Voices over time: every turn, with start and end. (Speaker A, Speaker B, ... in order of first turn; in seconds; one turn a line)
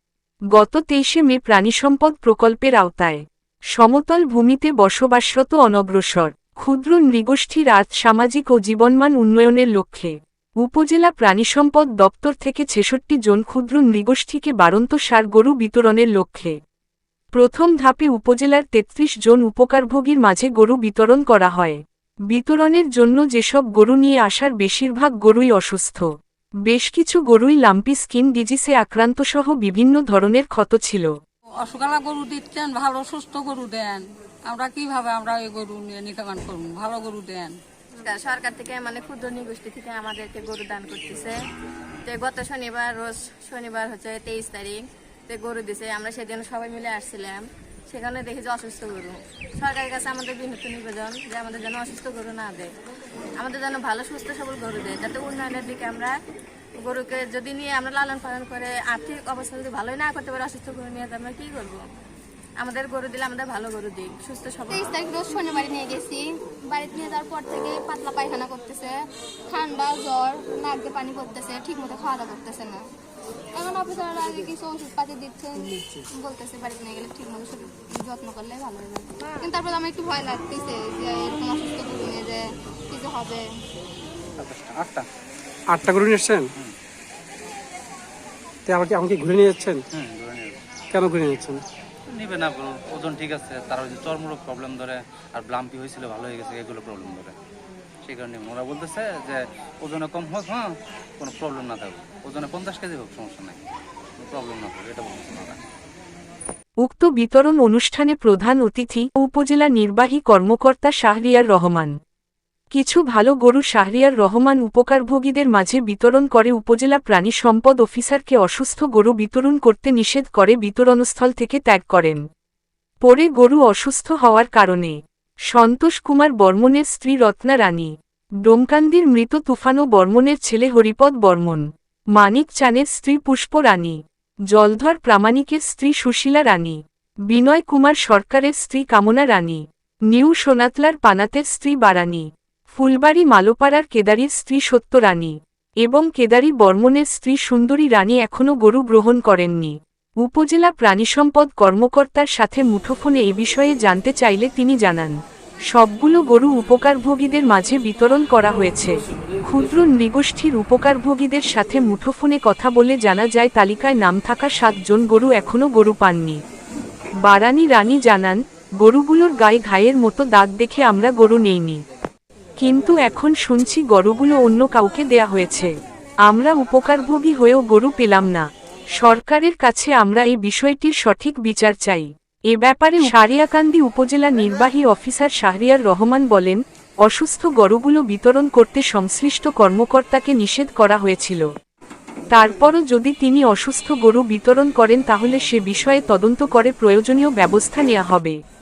Speaker A: 0.5-3.2
Speaker A: 3.8-16.6
Speaker A: 17.3-21.8
Speaker A: 22.3-26.1
Speaker A: 26.7-31.1
Speaker B: 31.6-37.6
Speaker C: 38.0-41.4
Speaker C: 42.0-52.7
Speaker C: 53.4-56.1
Speaker C: 56.8-61.8
Speaker C: 62.6-64.9
Speaker D: 64.7-68.9
Speaker D: 69.5-72.8
Speaker D: 73.5-83.4
Speaker E: 84.4-85.0
Speaker F: 85.7-86.5
Speaker F: 88.7-89.8
Speaker E: 89.9-90.6
Speaker F: 90.9-91.6
Speaker E: 92.1-97.3
Speaker E: 98.0-103.6
Speaker E: 104.2-105.6
Speaker A: 106.8-111.9
Speaker A: 112.7-122.2
Speaker A: 123.0-125.0
Speaker A: 125.5-127.9
Speaker A: 128.4-134.0
Speaker A: 134.5-155.2
Speaker A: 155.7-166.4
Speaker A: 167.2-171.8
Speaker A: 172.6-175.7
Speaker A: 176.3-178.5
Speaker A: 179.0-191.5
Speaker A: 192.3-198.4